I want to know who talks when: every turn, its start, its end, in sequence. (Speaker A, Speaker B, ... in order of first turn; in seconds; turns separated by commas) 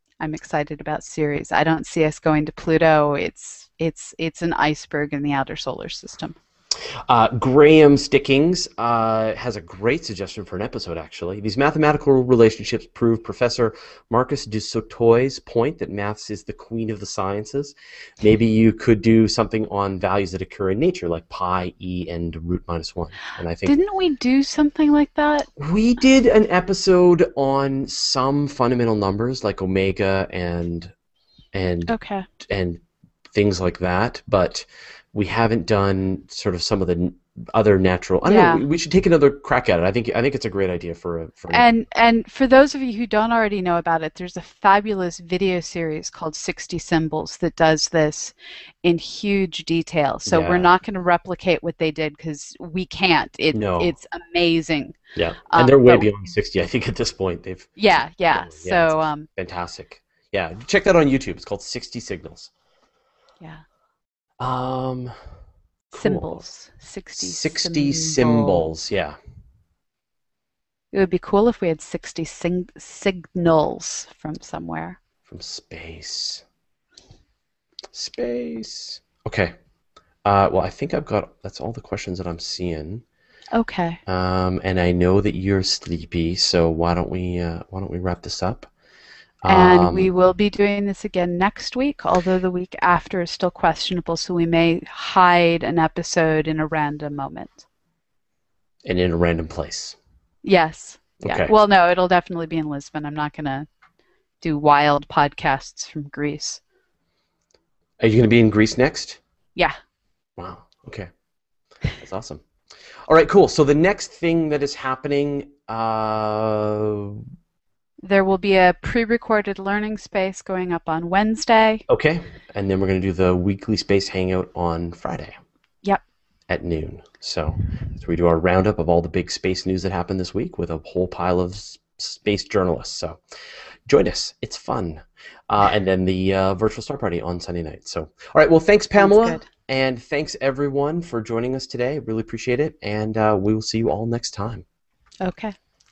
Speaker A: 0.2-6.4, Speaker B: 7.1-23.8, Speaker A: 23.7-25.5, Speaker B: 25.6-30.9, Speaker B: 31.5-32.8, Speaker A: 31.9-32.3, Speaker B: 33.3-41.7, Speaker A: 38.2-38.6, Speaker A: 41.5-55.0, Speaker B: 50.3-50.7, Speaker B: 53.5-53.9, Speaker B: 55.1-57.8, Speaker A: 55.5-56.1, Speaker A: 57.8-59.3, Speaker B: 58.3-62.5, Speaker B: 64.4-65.1, Speaker B: 65.9-66.5, Speaker A: 65.9-68.7, Speaker B: 67.2-69.2, Speaker A: 70.9-75.0, Speaker B: 75.3-76.4, Speaker B: 77.9-79.5, Speaker B: 80.2-83.0, Speaker A: 83.5-84.0, Speaker B: 84.1-88.7, Speaker B: 89.4-90.1, Speaker A: 89.5-97.7, Speaker B: 98.8-100.0, Speaker A: 100.4-103.7, Speaker B: 101.2-101.5, Speaker A: 104.4-106.6, Speaker B: 108.0-109.2, Speaker B: 110.4-111.1, Speaker B: 112.0-112.4, Speaker B: 113.1-117.2, Speaker A: 118.0-121.8, Speaker B: 121.9-125.3, Speaker B: 126.5-133.2, Speaker B: 133.9-144.7, Speaker A: 139.0-139.5, Speaker A: 145.2-145.6